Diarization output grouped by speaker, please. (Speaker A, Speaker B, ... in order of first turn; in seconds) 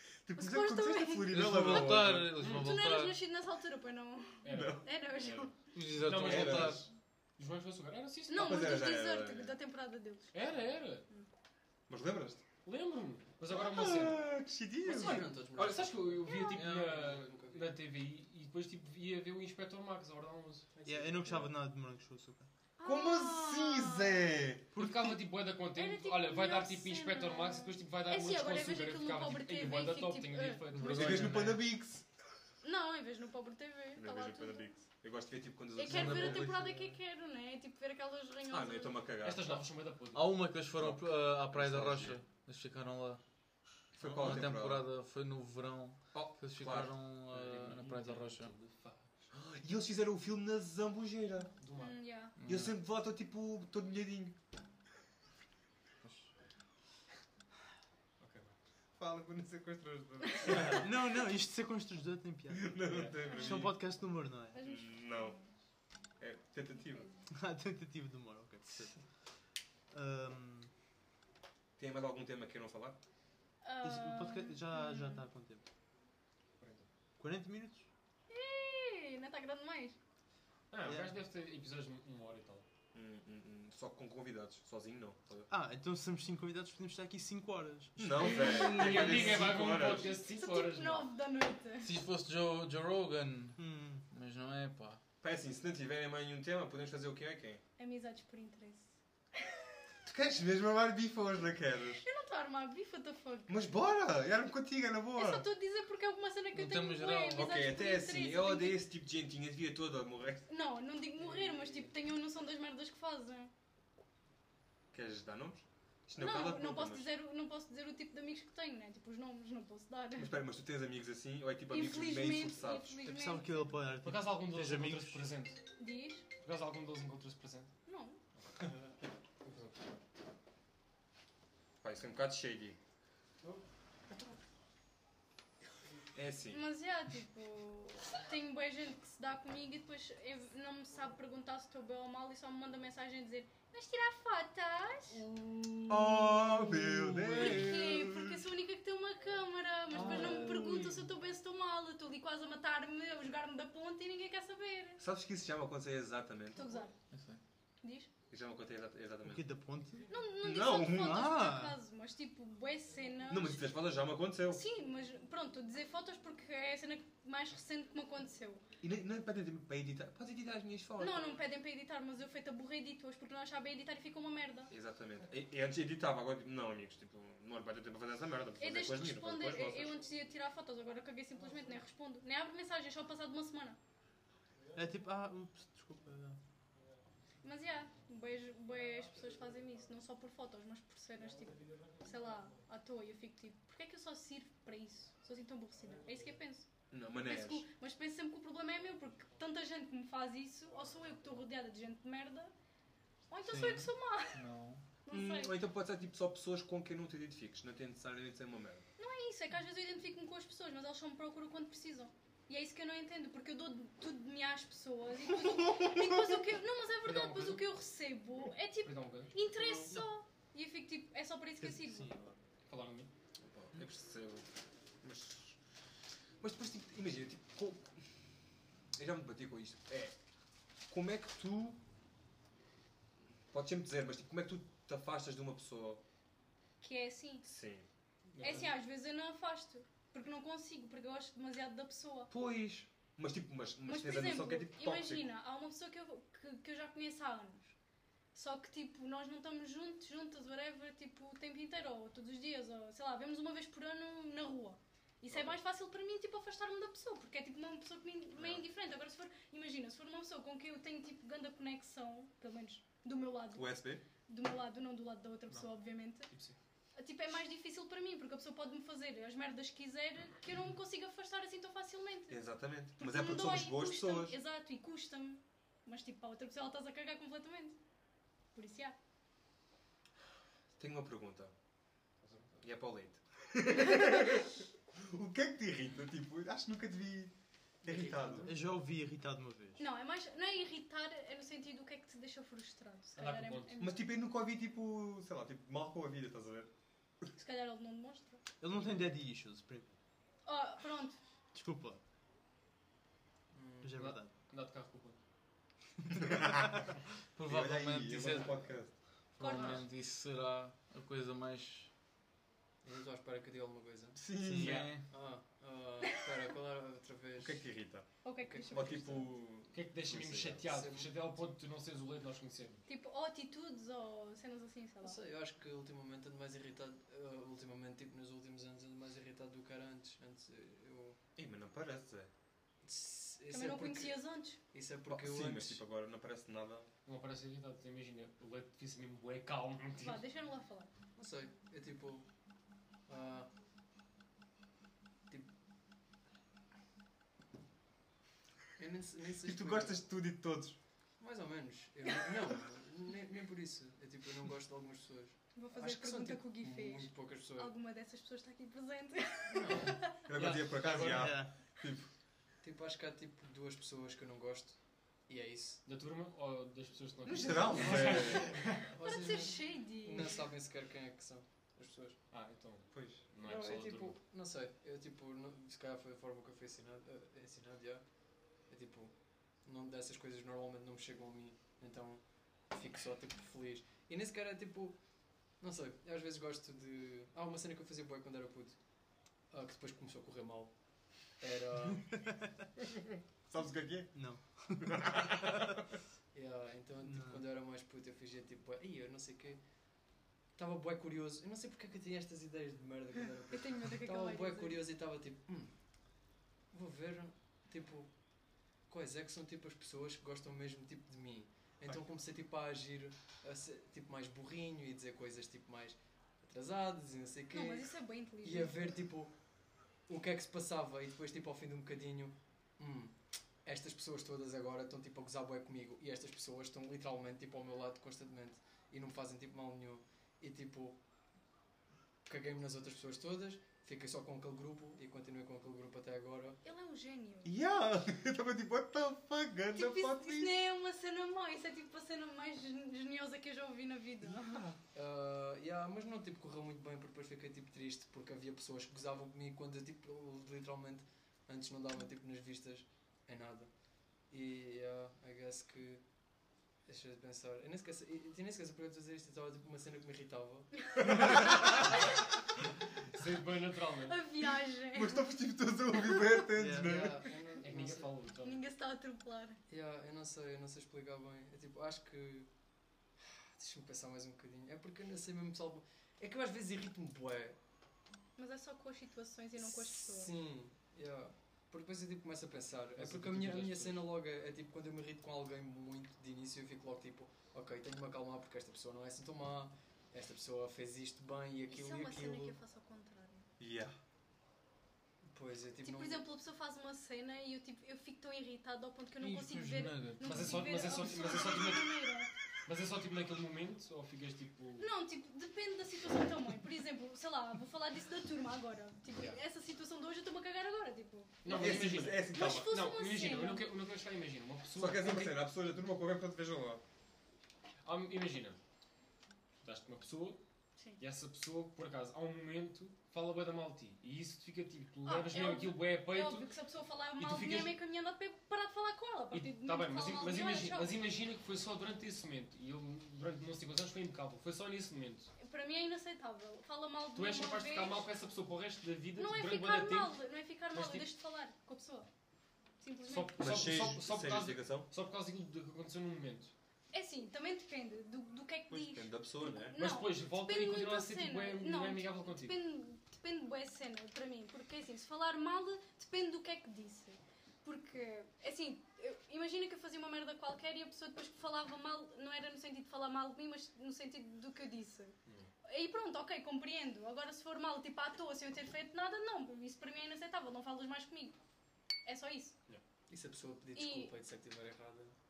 Speaker A: 0.2-2.5, 4.5-4.9, 6.1-6.9, 8.3-9.6, 11.9-12.4, 13.5-15.3, 22.8-24.7, 30.9-32.0, 34.0-36.9, 38.5-39.6, 40.7-42.2, 44.0-44.9, 46.1-47.0, 49.3-51.5, 52.5-54.4, 59.0-60.9, 62.5-63.8, 64.6-65.3, 66.2-67.1, 71.8-73.0, 82.9-85.5, 88.0-90.2, 95.2-97.6, 100.0-102.0, 103.5-105.5, 107.3-110.5, 114.9-117.1, 120.2-123.0, 131.8-132.8, 136.1-136.6, 145.9-148.4, 150.0-150.8, 155.0-156.8, 158.3-159.4, 160.4-161.3, 163.3-164.6, 168.8-171.4, 174.7-180.0, 196.9-197.7, 205.1-208.9, 223.5-224.4, 225.0-225.6, 226.4-227.9, 228.9-230.1, 230.9-231.8, 233.5-236.0, 237.4-237.8, 242.3-245.3, 255.3-255.6, 258.4-258.6, 263.5-264.0, 272.3-274.4, 280.8-281.5, 282.6-288.5, 293.8-296.7, 306.1-306.9, 307.5-308.9, 314.2-314.9, 317.4-320.6, 331.4-332.3, 335.1-336.9, 349.4-350.8, 360.2-362.1, 367.2-368.5, 372.9-373.3, 393.5-394.1, 394.8-395.8, 437.4-440.6, 444.2-444.8, 461.0-461.7, 464.5-467.2, 493.6-493.9, 511.5-512.7, 514.8-516.8, 543.4-544.9, 548.7-549.8
Speaker B: 0.3-5.5, 8.3-10.3, 16.2-16.6, 22.8-24.2, 25.8-30.8, 32.6-34.8, 35.7-39.0, 51.8-52.3, 60.3-60.7, 64.5-65.5, 66.9-67.1, 73.6-75.2, 78.3-80.0, 90.2-92.0, 97.8-99.6, 102.0-103.6, 105.2-108.8, 110.5-113.5, 116.2-120.4, 121.7-123.5, 125.8-126.2, 127.9-128.2, 136.5-145.2, 147.2-155.0, 156.5-156.9, 157.8-158.1, 160.1-163.7, 164.5-168.6, 171.0-174.7, 178.6-183.8, 187.4-196.7, 197.2-202.5, 203.3-204.4, 205.0-205.5, 209.0-222.1, 236.8-237.4, 238.4-242.3, 243.8-247.7, 248.3-263.7, 264.3-266.3, 266.9-272.4, 273.0-277.8, 278.5-278.9, 289.8-294.1, 297.4-298.4, 300.4-301.2, 309.4-309.8, 318.2-319.3, 322.9-325.2, 333.5-334.6, 340.0-340.9, 355.5-360.1, 369.0-370.4, 403.5-404.8, 417.5-419.0, 436.6-437.5, 439.7-444.6, 464.1-465.3, 466.0-466.3, 468.4-469.6, 478.4-480.3, 491.7-493.5, 495.8-502.3, 504.8-513.6, 525.0-531.0, 535.4-538.1, 539.1-542.1, 542.8-543.4, 546.9-565.1, 565.6-571.4, 572.0-572.5, 573.7-574.1
Speaker C: 1.3-3.2, 5.7-6.9, 16.5-17.1, 30.7-31.6, 40.1-43.2, 44.0-48.5, 52.4-52.7, 56.0-56.3, 88.4-89.4, 91.8-95.0, 106.5-107.5, 149.9-151.0, 157.1-157.4, 203.5-204.8, 307.4-308.6, 309.3-311.9, 314.5-315.1, 499.2-500.6
Speaker D: 2.4-2.7, 4.4-8.7, 10.3-11.0, 12.6-14.3, 15.0-20.7, 24.8-31.6, 39.2-40.4, 47.3-49.1, 51.6-51.9, 58.2-58.5, 76.6-76.9, 80.7-82.7, 88.2-91.1, 124.0-125.6, 126.4-127.7, 128.4-128.7, 129.4-129.8, 217.0-217.7, 218.8-219.3, 222.7-223.1, 238.3-238.7, 266.3-266.6, 282.2-282.6, 293.2-293.8, 304.0-305.2, 309.5-309.8, 319.7-322.8, 337.1-340.2, 359.6-361.3, 365.8-368.8, 372.3-374.2, 463.1-464.2, 467.6-468.6, 482.9-484.1, 500.2-502.0, 502.6-504.9, 511.4-515.4, 517.8-518.6, 519.6-520.4, 521.0-526.5, 527.2-527.8, 529.3-535.3, 537.1-540.2, 540.7-541.1, 543.1-546.5, 549.7-552.6
Speaker E: 14.8-17.7, 20.7-21.5, 111.2-111.9, 287.8-288.5, 303.5-304.0, 312.8-314.2, 315.1-317.6, 318.4-319.2, 320.6-321.1, 325.0-331.2, 332.8-335.8, 341.1-342.3, 343.1-343.5, 348.8-350.0, 351.2-357.7, 359.5-359.9, 362.6-365.8, 367.7-372.2, 373.4-378.1, 378.7-385.0, 385.6-388.8, 389.5-390.7, 391.3-392.3, 396.3-399.6, 400.6-405.7, 406.7-408.1, 408.9-417.9, 418.4-419.3, 420.1-431.0, 432.2-436.6, 444.9-453.7, 454.3-456.0, 456.9-460.8, 466.7-468.1, 469.7-472.5, 473.2-477.6, 479.6-492.6, 495.3-496.2, 573.1-575.1
Speaker F: 20.8-22.5, 24.7-25.2, 60.4-64.6, 67.3-68.9, 69.9-70.7, 73.8-75.7, 77.2-77.9, 80.8-81.1, 85.5-88.7, 93.6-94.0, 123.0-125.3, 159.2-160.1, 160.8-161.8, 184.7-186.4, 221.6-222.4, 288.4-289.8, 298.6-299.9, 301.5-302.0, 303.8-304.3, 306.0-306.6, 314.4-314.9, 361.1-361.5, 394.1-395.3, 397.0-397.4, 466.5-467.1